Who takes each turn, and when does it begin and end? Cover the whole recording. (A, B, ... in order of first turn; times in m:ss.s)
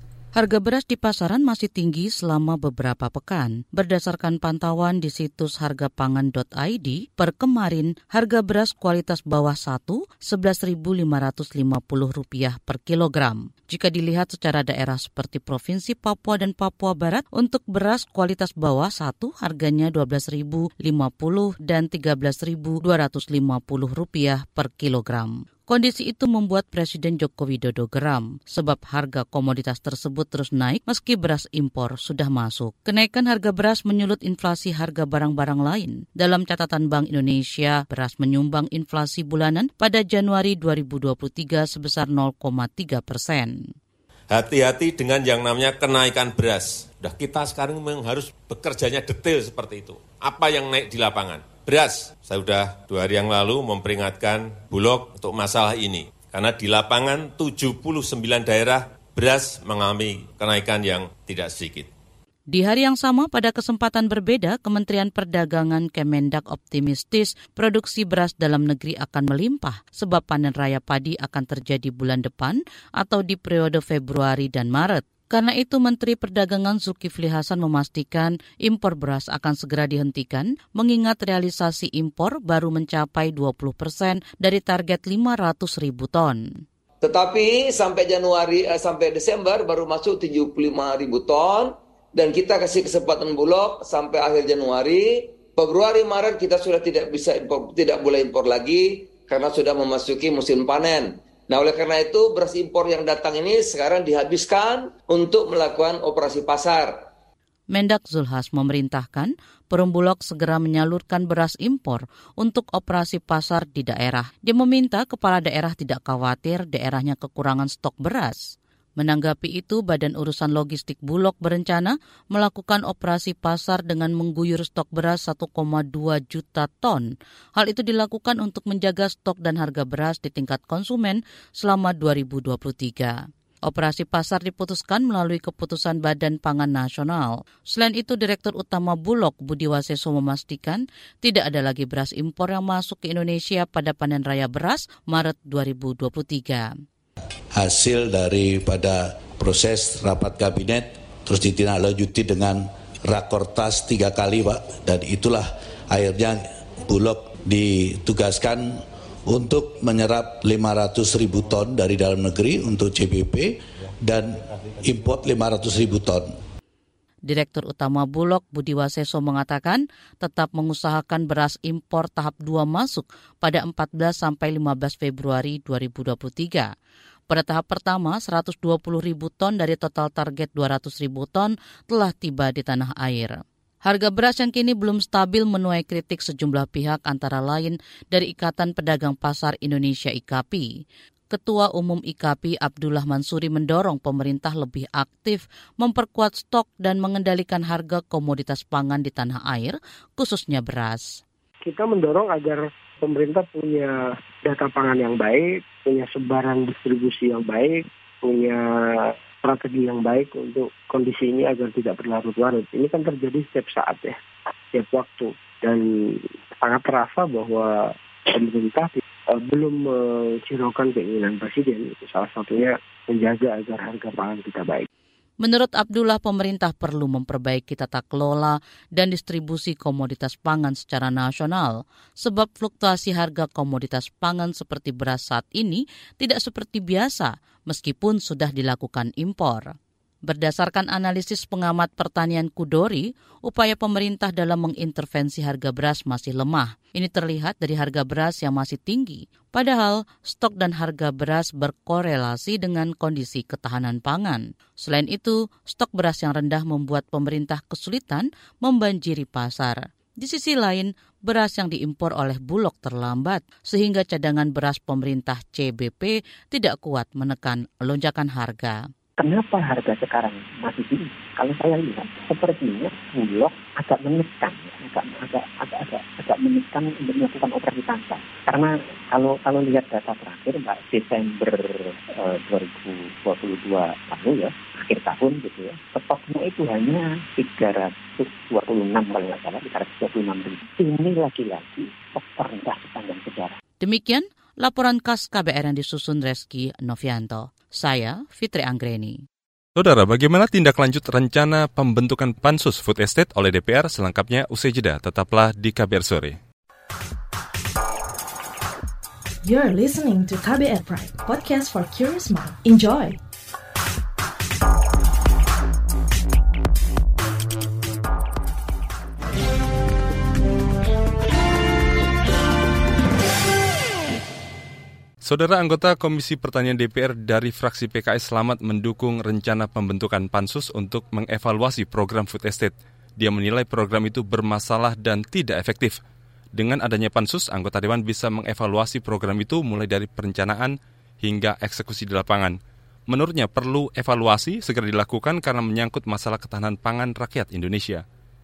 0:00.4-0:43.5 A
0:44.3-1:01.9 B
1:02.5-1:26.6 A
1:27.0-1:47.0 C
1:47.7-2:26.7 A
2:27.5-2:46.3 D
2:47.3-2:56.7 A
2:57.3-3:10.7 A
3:11.3-3:21.2 A
3:21.6-3:34.2 E
3:34.7-3:44.9 E
3:45.4-3:59.7 A
4:00.3-4:28.8 A
4:29.2-4:53.6 E
4:53.8-4:59.2 A
4:59.8-5:06.4 F
5:09.4-5:13.2 G
5:25.2-5:36.0 F
5:36.5-5:42.6 F
5:43.1-5:48.0 F